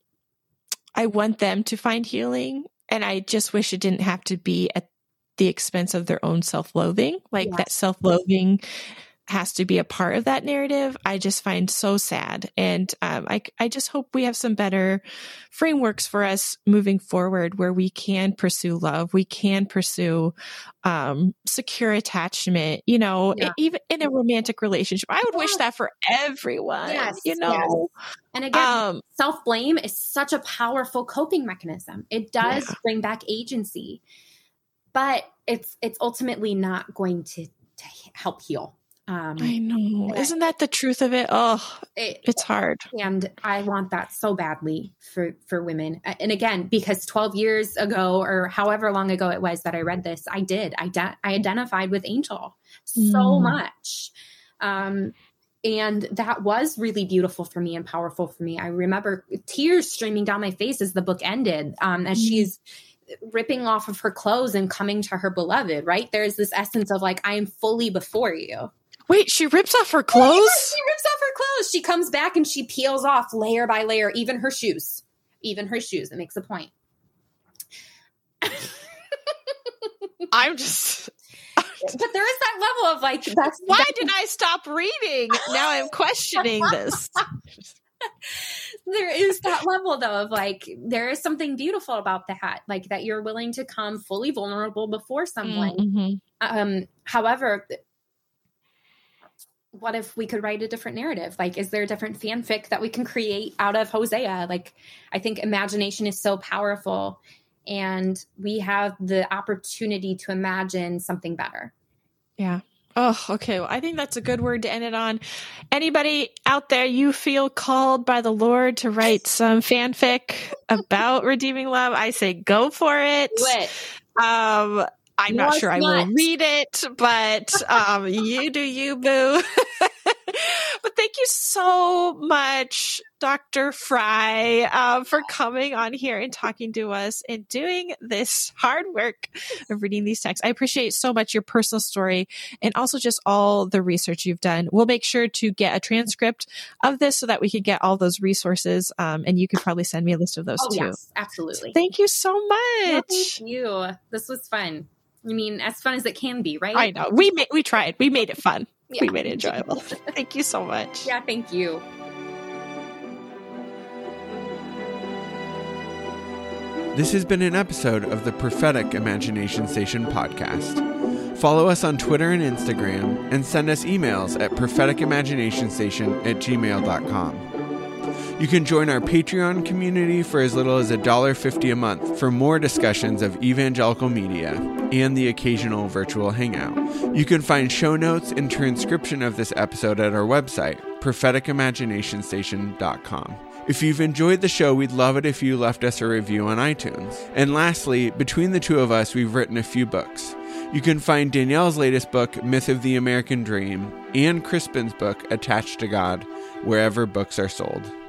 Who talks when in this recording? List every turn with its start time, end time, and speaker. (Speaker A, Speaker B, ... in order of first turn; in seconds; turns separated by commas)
Speaker A: 0.9-8.6, Speaker B: 7.4-7.7, Speaker A: 9.3-20.3, Speaker A: 20.8-27.9, Speaker B: 25.3-25.6, Speaker B: 26.9-34.0, Speaker A: 28.5-29.0, Speaker A: 32.4-32.7, Speaker B: 34.9-39.5, Speaker A: 39.4-42.8, Speaker B: 40.1-40.4, Speaker B: 42.0-42.4, Speaker B: 42.9-62.6, Speaker A: 53.0-53.6, Speaker A: 62.1-62.5, Speaker B: 63.2-68.7, Speaker A: 69.1-70.8, Speaker B: 70.1-76.7, Speaker B: 78.4-78.7, Speaker A: 80.3-81.9, Speaker B: 81.8-84.1, Speaker A: 83.6-87.2, Speaker B: 86.7-87.2, Speaker B: 88.2-95.8, Speaker A: 95.4-96.2, Speaker B: 96.4-97.8, Speaker B: 99.7-111.7, Speaker A: 112.4-123.6, Speaker B: 123.3-123.7, Speaker A: 124.2-150.9, Speaker B: 125.3-126.3, Speaker B: 150.6-151.8, Speaker A: 151.7-153.4, Speaker B: 152.8-156.9, Speaker A: 156.7-161.1, Speaker B: 158.9-160.1, Speaker B: 161.0-161.8, Speaker C: 166.9-170.8, Speaker C: 171.3-177.5, Speaker C: 178.4-207.9